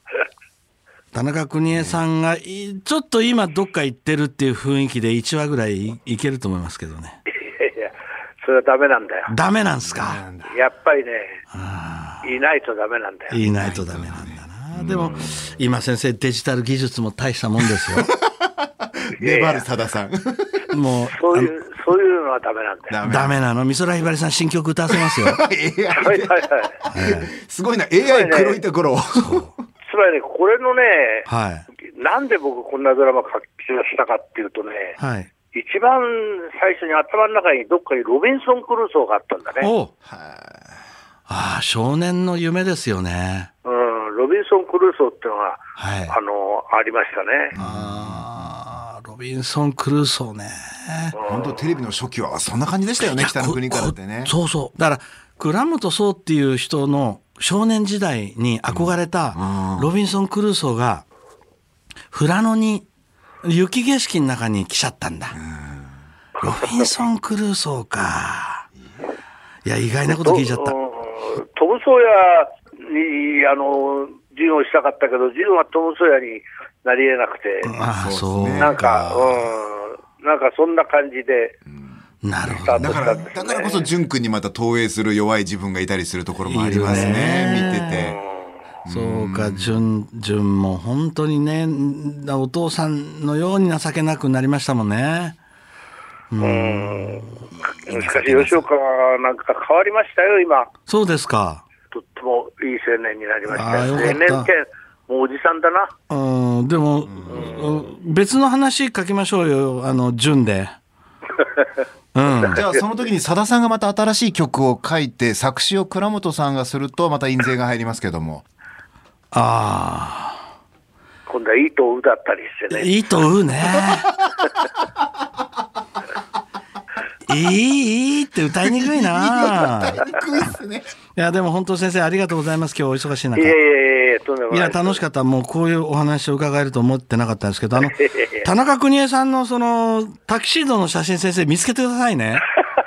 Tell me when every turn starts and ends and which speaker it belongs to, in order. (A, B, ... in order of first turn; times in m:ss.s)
0:01.1-0:07.2 A
0:07.3-0:09.3 B
0:09.3-0:10.2 A
0:09.9-0:10.5 C
0:10.5-0:11.4 B
0:11.5-0:12.2 A
0:12.2-0:13.4 B
0:13.3-0:18.1 A
0:13.6-0:15.5 C
0:17.9-0:20.7 C
0:19.2-0:19.6 B
0:20.7-0:21.5 A
0:21.1-0:23.0 B
0:22.9-0:23.4 C
0:23.0-0:25.4 A
0:24.9-0:29.5 C
0:25.9-0:26.8 B
0:26.9-0:27.3 A
0:28.0-0:28.6 B
0:29.2-0:29.5 A
0:29.9-0:31.3 B
0:31.3-0:31.7 A
0:31.9-0:35.0 B
0:35.0-0:35.3 A
0:35.5-0:39.7 B
0:39.6-0:39.9 A
0:40.1-0:40.7 C
0:41.3-0:43.5 A
0:43.6-0:47.6 B
0:45.8-0:46.2 A
0:47.5-0:48.3 C
0:47.6-0:51.2 A
0:51.1-0:51.6 B
0:51.3-0:54.3 C
0:53.0-1:01.0 A
0:58.8-0:59.9 C
1:02.1-1:02.9 A
1:03.4-1:05.4 A
1:05.4-1:05.8 C
1:06.4-1:06.9 B
1:06.4-1:08.7 A
1:09.6-1:10.8 A
1:10.2-1:17.7 B
1:17.6-1:19.5 A
1:18.0-1:18.7 C
1:18.6-1:21.6 B
1:22.2-1:23.2 A
1:22.4-1:23.9 B
1:22.8-1:28.2 C
1:26.4-1:28.0 A
1:27.7-1:28.5 B
1:28.8-1:29.8 C
1:28.9-1:35.4 A
1:36.3-1:38.6 A
1:36.4-1:40.7 B
1:40.9-1:41.6 A
1:41.9-1:45.9 B
1:43.5-1:44.5 A
1:46.1-1:50.7 A
1:47.3-1:47.6 B
1:52.2-1:52.6 A
1:52.4-1:58.4 C
1:59.3-2:00.4 A
2:01.3-2:03.0 B
2:02.7-2:04.2 A
2:07.3-2:10.1 A
2:08.6-2:10.9 C
2:11.2-2:13.6 A
2:13.4-2:15.0 B
2:14.5-2:22.5 A
2:17.8-2:18.5 B